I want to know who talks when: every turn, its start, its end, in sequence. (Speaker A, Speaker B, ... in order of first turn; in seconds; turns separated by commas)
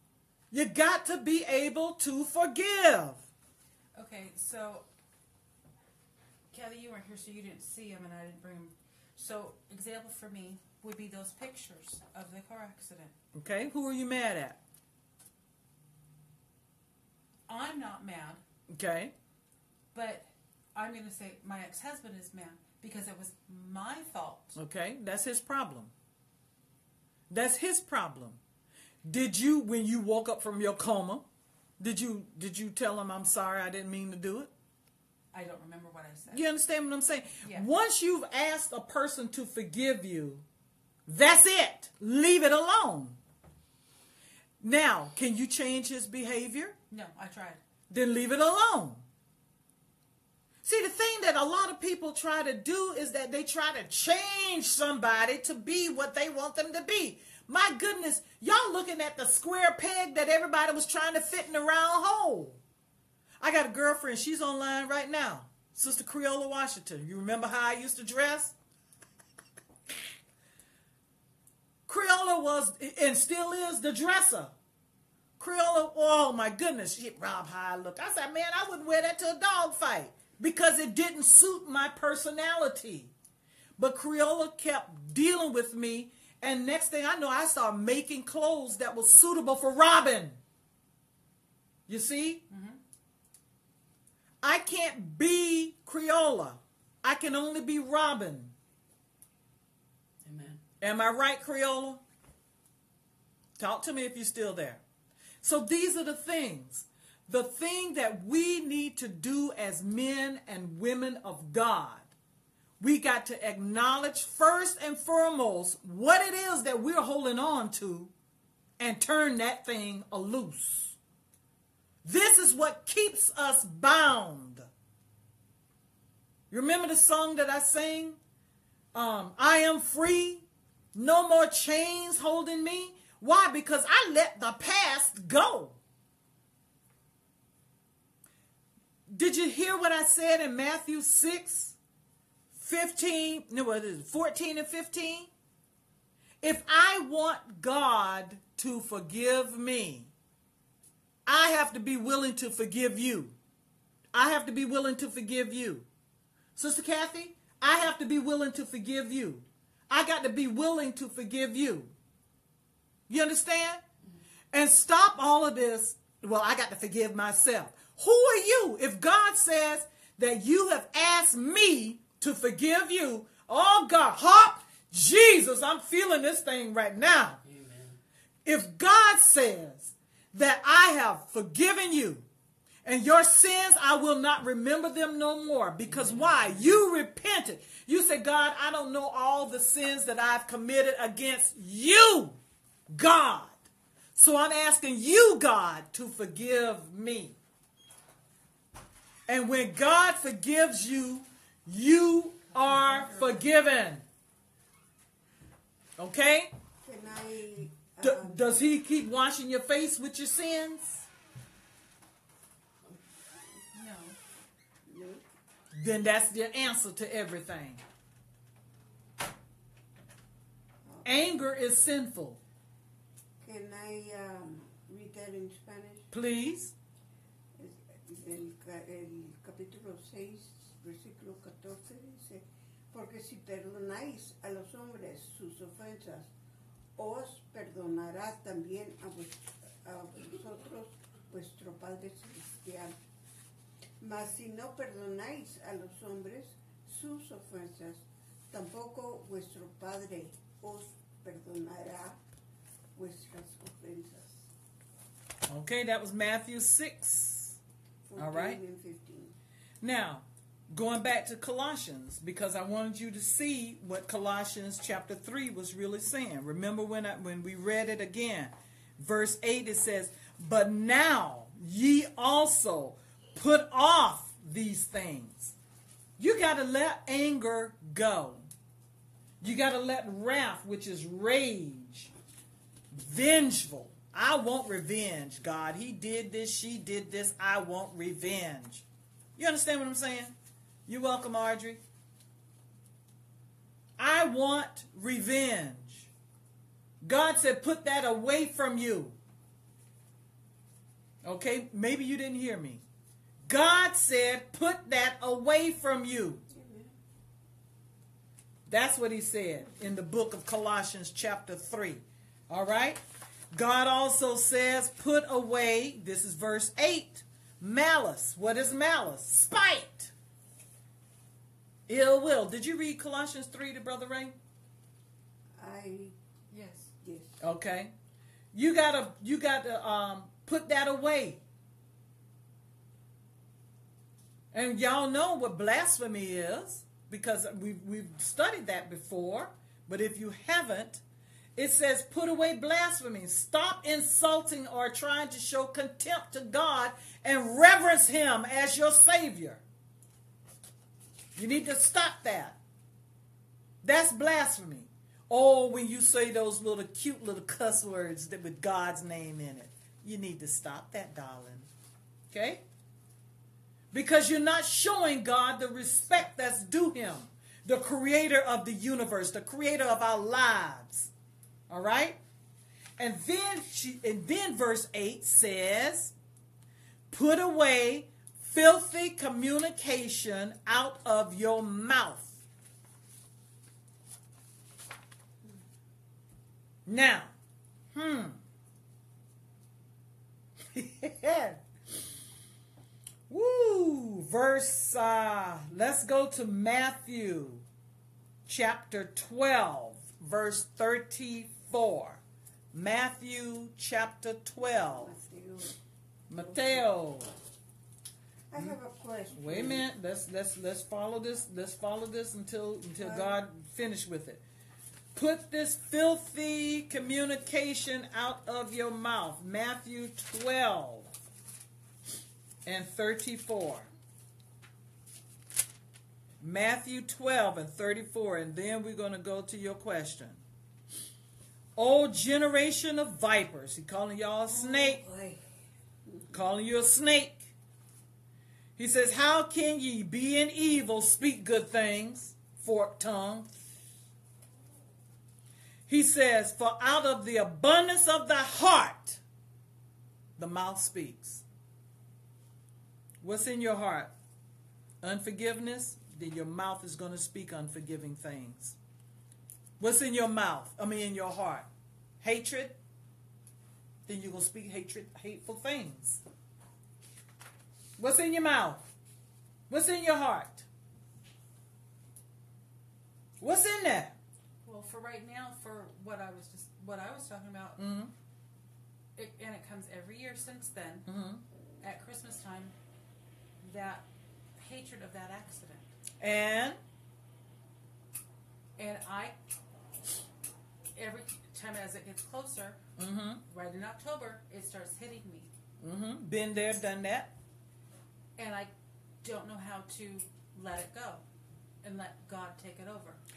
Speaker A: 0.5-3.3, Speaker B: 4.0-4.9, Speaker B: 6.5-13.1, Speaker A: 13.3-14.6, Speaker B: 17.5-18.4, Speaker A: 18.7-19.1, Speaker B: 19.9-24.6, Speaker A: 24.6-25.9, Speaker A: 27.3-28.4, Speaker A: 29.1-31.2, Speaker A: 31.8-34.5, Speaker B: 35.3-36.5, Speaker A: 36.3-40.5, Speaker B: 37.4-37.7, Speaker A: 41.1-43.2, Speaker A: 44.6-46.8, Speaker B: 46.9-47.6, Speaker A: 47.9-49.1, Speaker A: 50.6-62.6, Speaker A: 63.4-68.5, Speaker A: 71.9-74.5, Speaker A: 75.4-83.1, Speaker A: 83.8-90.4, Speaker A: 91.9-92.5, Speaker B: 92.5-92.8, Speaker A: 94.4-98.5, Speaker C: 100.2-100.6, Speaker A: 100.8-102.0, Speaker A: 103.6-104.8, Speaker A: 105.4-112.1, Speaker A: 112.8-118.1, Speaker A: 118.8-121.0, Speaker A: 122.0-124.7, Speaker A: 126.5-128.2, Speaker A: 128.9-135.8, Speaker A: 139.1-141.8, Speaker A: 142.5-145.3, Speaker A: 146.4-150.1, Speaker A: 151.3-153.4, Speaker A: 154.1-155.9, Speaker A: 156.6-161.9, Speaker A: 163.1-163.8, Speaker A: 164.5-177.4, Speaker C: 177.4-178.0, Speaker A: 178.4-182.3, Speaker A: 182.8-193.6, Speaker C: 185.8-186.8, Speaker A: 194.2-197.4, Speaker A: 199.3-204.1, Speaker D: 202.7-203.4, Speaker A: 206.0-206.5, Speaker D: 206.8-208.5, Speaker A: 208.0-211.1, Speaker B: 213.7-214.2, Speaker D: 214.9-215.2, Speaker A: 215.8-217.8, Speaker A: 221.0-222.4, Speaker D: 223.4-226.1, Speaker A: 226.1-226.7, Speaker D: 227.6-236.3, Speaker D: 237.0-242.9, Speaker D: 244.0-252.2, Speaker D: 253.0-254.5, Speaker A: 255.5-257.6, Speaker D: 258.1-259.4, Speaker A: 258.2-258.6, Speaker A: 259.8-275.6, Speaker A: 276.2-278.5, Speaker A: 279.4-282.1, Speaker A: 282.9-288.9, Speaker A: 289.4-290.3, Speaker A: 290.9-291.8, Speaker A: 294.0-296.1, Speaker A: 297.0-299.2, Speaker A: 301.2-302.8, Speaker A: 303.5-306.5, Speaker D: 306.5-306.9, Speaker A: 308.7-313.0, Speaker A: 313.5-320.1, Speaker A: 321.9-324.4, Speaker D: 325.6-326.1, Speaker B: 326.5-326.9, Speaker D: 327.0-327.4, Speaker A: 327.4-327.9, Speaker A: 328.5-331.4, Speaker A: 334.5-341.0, Speaker A: 341.6-349.6, Speaker A: 351.4-352.6, Speaker A: 353.8-361.7, Speaker A: 362.3-362.6, Speaker A: 363.9-371.1, Speaker A: 371.7-372.2, Speaker A: 373.0-376.1, Speaker A: 377.1-382.4, Speaker A: 386.9-387.3, Speaker A: 387.9-388.4, Speaker A: 390.7-391.6, Speaker A: 393.3-397.7, Speaker A: 398.5-402.2, Speaker A: 402.7-405.1, Speaker D: 404.6-405.8, Speaker A: 406.3-407.4, Speaker D: 406.3-406.9, Speaker D: 408.5-409.9, Speaker A: 409.3-414.4, Speaker D: 413.0-413.4, Speaker A: 415.1-421.2, Speaker A: 422.6-423.9, Speaker A: 426.4-430.4, Speaker A: 431.8-435.0, Speaker D: 434.5-435.4, Speaker A: 436.3-437.5, Speaker A: 438.8-443.6, Speaker A: 445.9-449.2, Speaker A: 450.4-451.4, Speaker A: 453.2-454.1, Speaker A: 455.0-458.8, Speaker A: 459.8-461.7, Speaker A: 462.2-462.8, Speaker A: 464.1-466.2, Speaker A: 468.0-468.8, Speaker A: 469.7-470.7, Speaker A: 473.4-474.2, Speaker B: 474.6-477.8, Speaker A: 477.8-478.1, Speaker B: 479.2-481.1, Speaker A: 481.1-481.4, Speaker B: 481.8-482.8, Speaker B: 483.6-484.1, Speaker B: 484.6-485.9, Speaker A: 486.2-486.8, Speaker B: 488.8-489.4, Speaker B: 490.9-492.8, Speaker A: 493.0-493.4, Speaker B: 493.5-495.5, Speaker A: 495.8-497.3, Speaker B: 498.4-501.2, Speaker B: 501.8-503.2